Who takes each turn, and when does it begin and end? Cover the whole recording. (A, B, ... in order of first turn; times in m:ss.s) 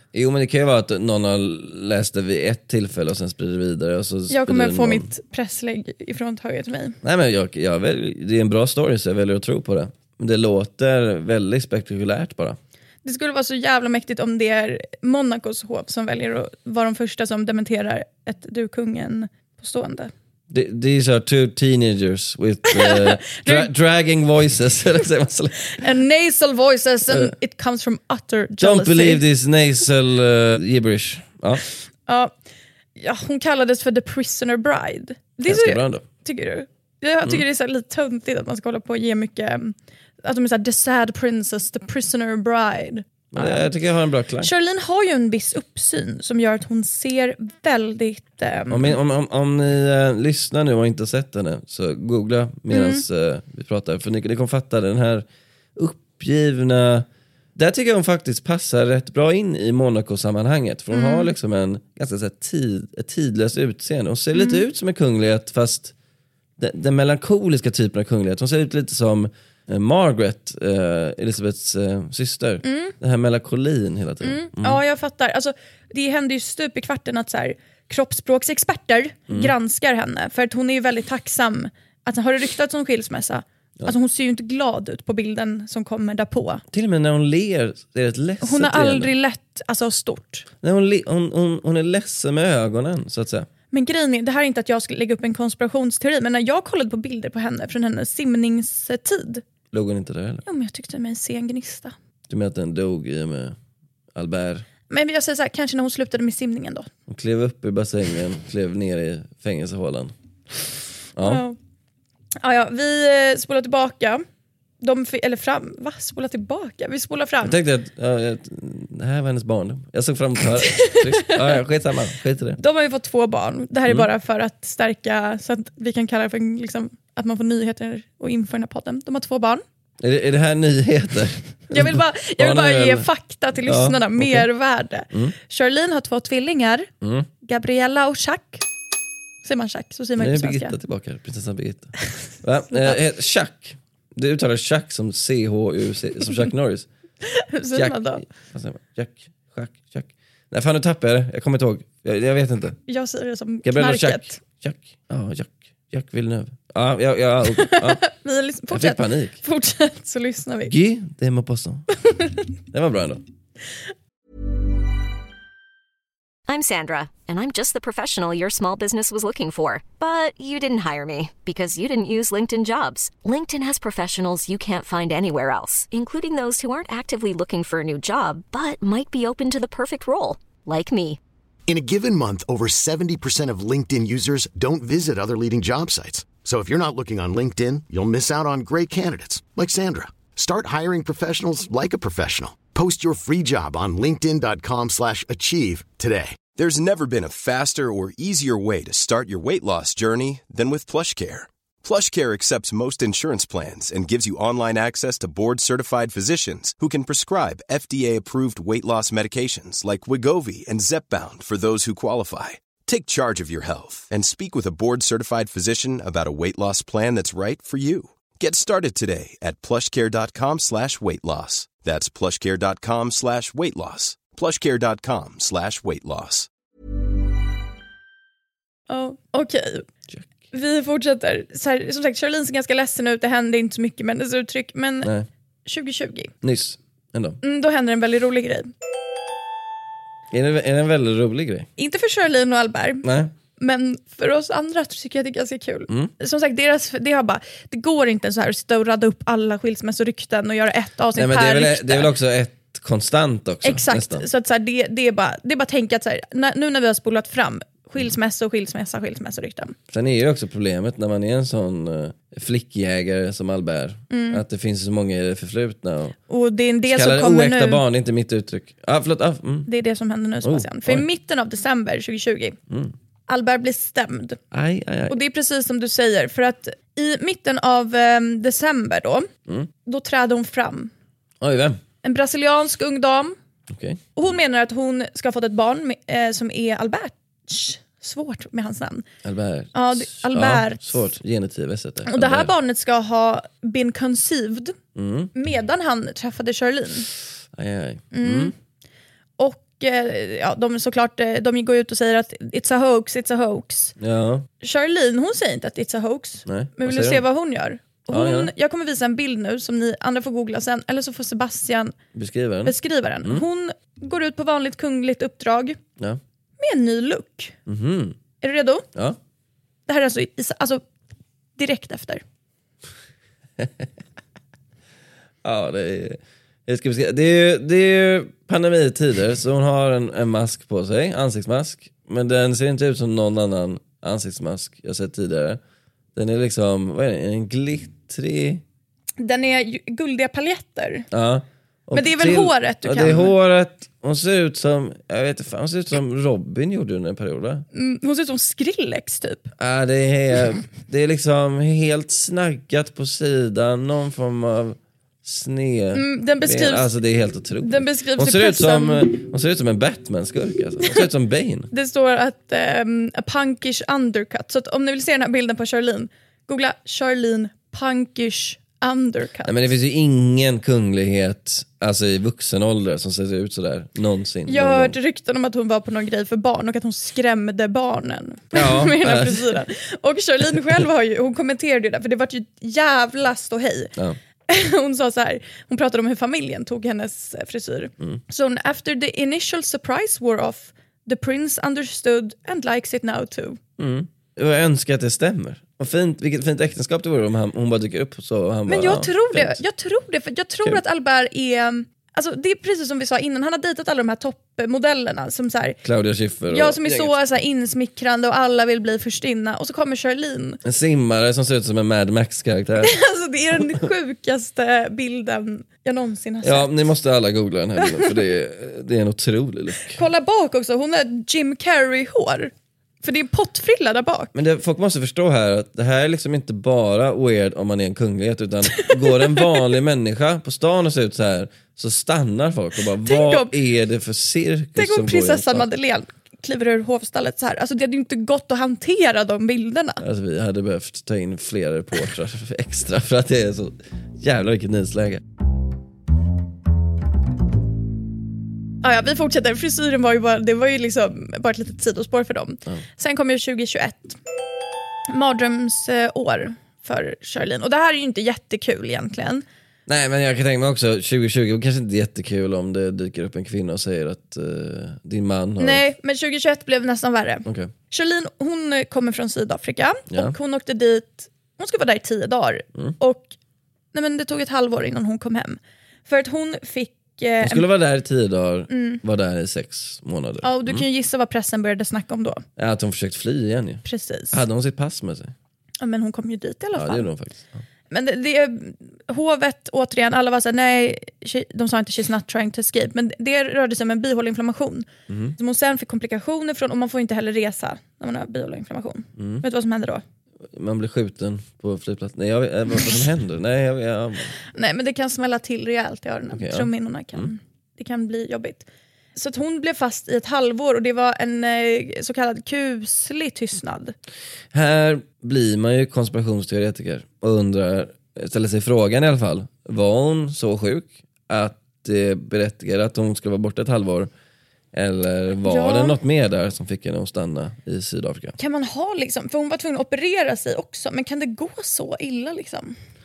0:00.1-0:05.1 A
0:04.3-0:07.0 B
0:07.0-0:12.6 A
0:13.0-0:20.1 B
0:20.5-0:25.8 A
0:22.7-0:23.7 B
0:25.7-0:29.2 B
0:27.1-0:27.3 A
0:28.6-0:31.6 A
0:32.1-0:32.3 B
0:33.0-0:43.7 B
0:35.4-0:36.0 A
0:43.3-0:44.5 A
0:44.4-0:49.0 B
0:48.7-1:05.9 A
0:52.7-0:53.0 B
1:00.9-1:01.3 B
1:04.3-1:04.6 B
1:06.6-1:14.8 A
1:12.6-1:12.9 B
1:14.2-1:26.6 B
1:26.7-1:29.1 A
1:28.4-1:30.4 B
1:30.6-1:33.5 A
1:33.7-1:39.4 B
1:39.7-1:40.4 A
1:40.4-1:41.9 B
1:42.3-1:43.6 A
1:44.1-1:44.6 A
1:44.9-1:46.9 B
1:47.1-1:50.1 A
1:51.2-1:51.4 A
1:51.2-1:51.6 B
1:52.4-1:54.2 B
1:54.8-1:57.6 B
1:57.4-2:02.6 A
2:00.6-2:01.5 B
2:02.6-2:09.6 B
2:10.0-2:13.1 A
2:11.7-2:16.9 B
2:13.6-2:14.5 A
2:17.0-2:17.3 A
2:17.4-2:18.6 B
2:19.4-2:20.7 B
2:20.2-2:26.9 A
2:22.2-2:23.0 B
2:27.2-2:28.2 B
2:27.7-2:32.8 A
2:32.9-2:34.4 B
2:33.6-2:38.0 A
2:37.6-2:40.7 B
2:38.7-2:39.4 A
2:40.7-2:41.8 A
2:42.1-2:42.4 B
2:42.7-2:43.2 A
2:46.5-3:01.2 C
3:01.7-3:16.4 D
3:16.6-3:46.5 E
3:48.9-3:49.8 B
3:50.5-3:55.1 B
3:55.0-3:55.3 A
3:55.6-3:56.3 B
3:56.4-3:57.4 A
3:57.4-3:58.7 B
4:00.3-4:01.7 A
4:01.8-4:03.0 B
4:03.0-4:03.3 A
4:03.6-4:12.1 B
4:11.1-4:14.2 A
4:13.6-4:19.8 B
4:19.9-4:26.2 A
4:24.1-4:24.4 B
4:26.3-4:27.8 B
4:26.8-4:29.7 A
4:29.7-4:32.6 B
4:30.4-4:31.0 A
4:33.3-4:34.4 B
4:34.5-4:35.2 A
4:35.1-4:39.3 B
4:39.8-4:40.9 B
4:41.4-4:41.8 A
4:42.0-4:43.4 B
4:43.7-4:44.0 A
4:44.2-4:49.0 B
4:49.2-4:52.5 A
4:49.7-4:50.8 B
4:52.1-4:54.8 B
4:54.9-4:55.3 A
4:55.3-4:57.1 B
4:57.5-4:58.5 A
4:58.1-4:58.5 B
4:59.4-5:03.9 B
5:04.0-5:04.5 A
5:04.6-5:11.9 B
5:06.4-5:07.2 A
5:08.1-5:08.5 A
5:12.1-5:13.4 A
5:12.6-5:15.8 B
5:16.6-5:17.5 B
5:17.7-5:18.2 A
5:18.4-5:18.8 B
5:19.9-5:20.8 B
5:21.6-5:22.2 B
5:23.6-5:23.9 A
5:25.4-5:35.6 A
5:36.1-5:38.6 A
5:39.2-5:41.1 B
5:41.1-5:47.6 A
5:41.9-5:43.3 B
5:47.7-5:49.5 B
5:49.6-6:01.7 A
5:55.9-5:56.9 B
5:57.6-5:59.1 B
6:01.7-6:09.5 B
6:09.4-6:14.9 A
6:14.5-6:23.9 B
6:18.5-6:19.6 A
6:24.5-6:33.6 B
6:33.8-6:39.6 A
6:38.7-6:45.8 B
6:45.8-6:47.1 A
6:46.5-6:50.6 B
6:50.6-6:52.9 A
6:52.8-6:56.7 B
6:56.4-7:00.0 A
6:57.8-6:58.1 B
6:59.9-7:04.3 B
7:04.3-7:15.7 A
7:08.8-7:09.6 B
7:13.0-7:13.5 B
7:14.8-7:20.0 B
7:20.0-7:25.2 A
7:28.8-7:34.2 B
7:35.1-7:39.4 B
7:39.9-7:45.8 A
7:45.6-7:53.3 B
7:47.4-7:47.7 A
7:50.1-7:50.4 A
7:53.9-7:57.6 B
7:57.4-8:00.8 A
7:58.7-7:59.0 B
8:00.4-8:02.4 B
8:02.6-8:05.3 A
8:03.8-8:04.4 B
8:05.8-8:07.1 B
8:06.7-8:07.6 A
8:07.9-8:20.0 B
8:15.1-8:15.4 A
8:19.2-8:19.4 A
8:20.4-8:24.3 A
8:24.5-8:33.9 B
8:26.3-8:27.3 A
8:34.5-8:44.1 A
8:44.7-8:48.3 A
8:45.4-8:46.0 B
8:48.4-8:52.8 B